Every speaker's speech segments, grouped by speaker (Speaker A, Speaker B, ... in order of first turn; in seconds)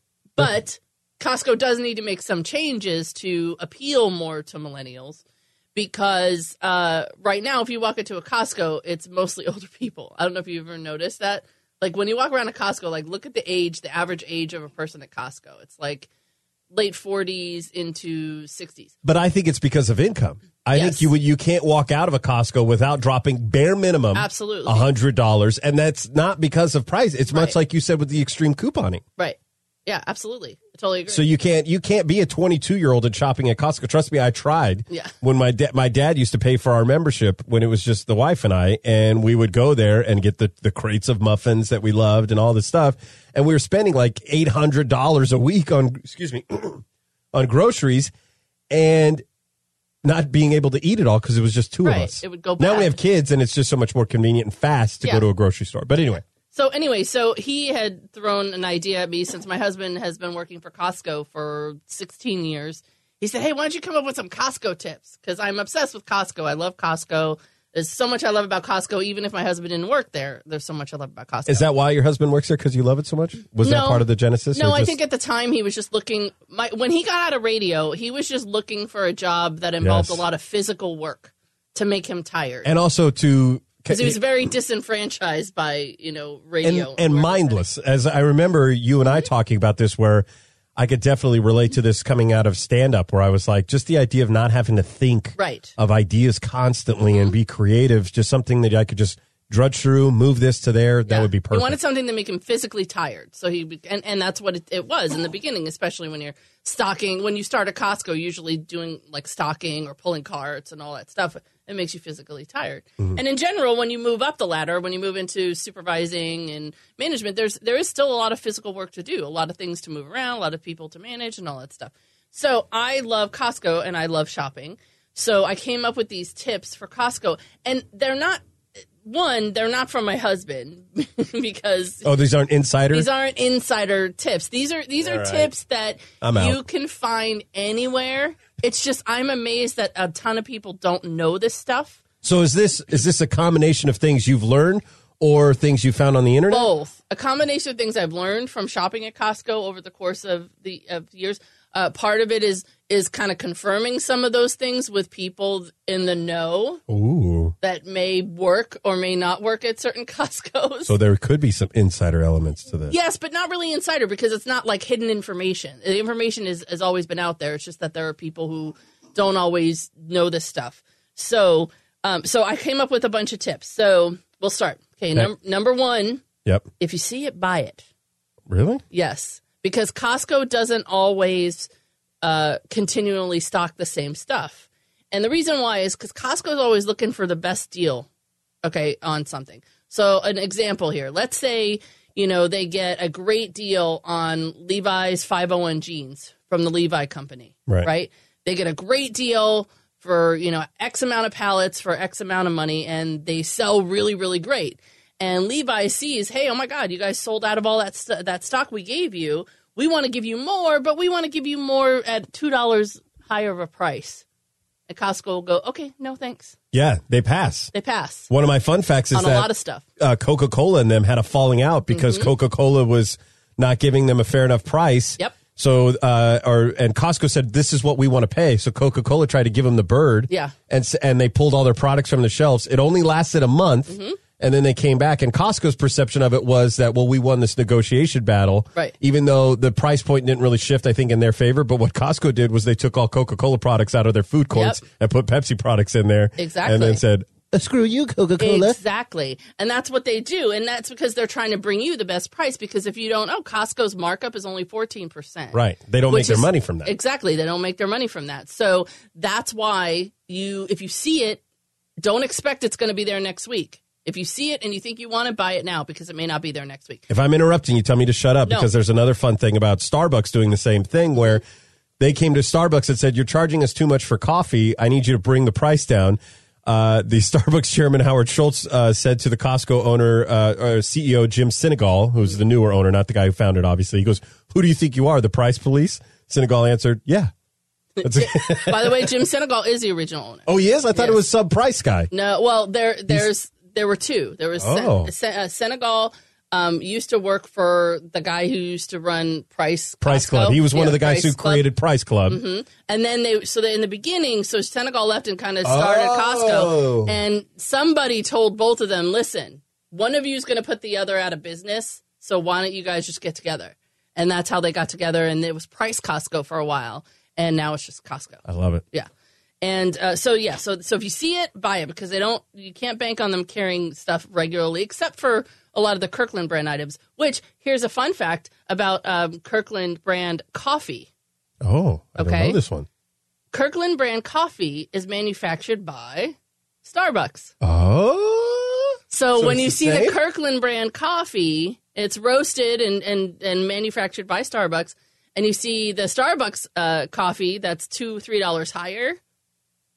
Speaker A: 0.3-5.2, 5.7-16.1, 16.7-18.9, 20.7-21.1, 24.1-24.9, 27.3-27.6, 29.2-31.2, 51.8-53.0, 56.5-71.7, 73.6-82.7, 83.9-87.6, 95.4-95.7, 101.1-128.4, 129.0-132.1, 132.9-142.0, 146.5-156.8, 157.6-160.9, 162.9-176.2, 176.8-177.8, 178.9-181.7, 182.2-188.1, 188.6-214.2, 214.9-216.5, 217.7-218.3, 219.1-219.8, 221.9-222.3, 230.3-230.5, 233.9-234.2, 244.5-244.8, 246.4-247.0, 248.4-261.4, 262.0-267.1, 288.0-291.2, 292.1-301.7, 302.3-319.1, 319.6-331.1, 332.2-332.6, 333.5-337.5, 339.1-349.2
Speaker B: 19.0-29.0, 31.1-48.1, 48.7-49.2, 50.0-56.2, 71.5-74.9, 79.8-80.2, 82.6-84.2, 86.6-101.8, 132.0-133.1, 135.0-135.5, 136.2-136.6, 142.2-146.7, 156.9-157.5, 160.9-162.9, 178.5-178.8, 216.7-217.7, 218.3-248.8, 255.5-256.9, 267.1-271.4, 272.0-287.3, 288.0-289.1, 290.5-292.1, 294.6-295.1, 300.0-302.4, 305.6-307.2, 318.4-318.8, 331.6-332.9, 337.6-340.2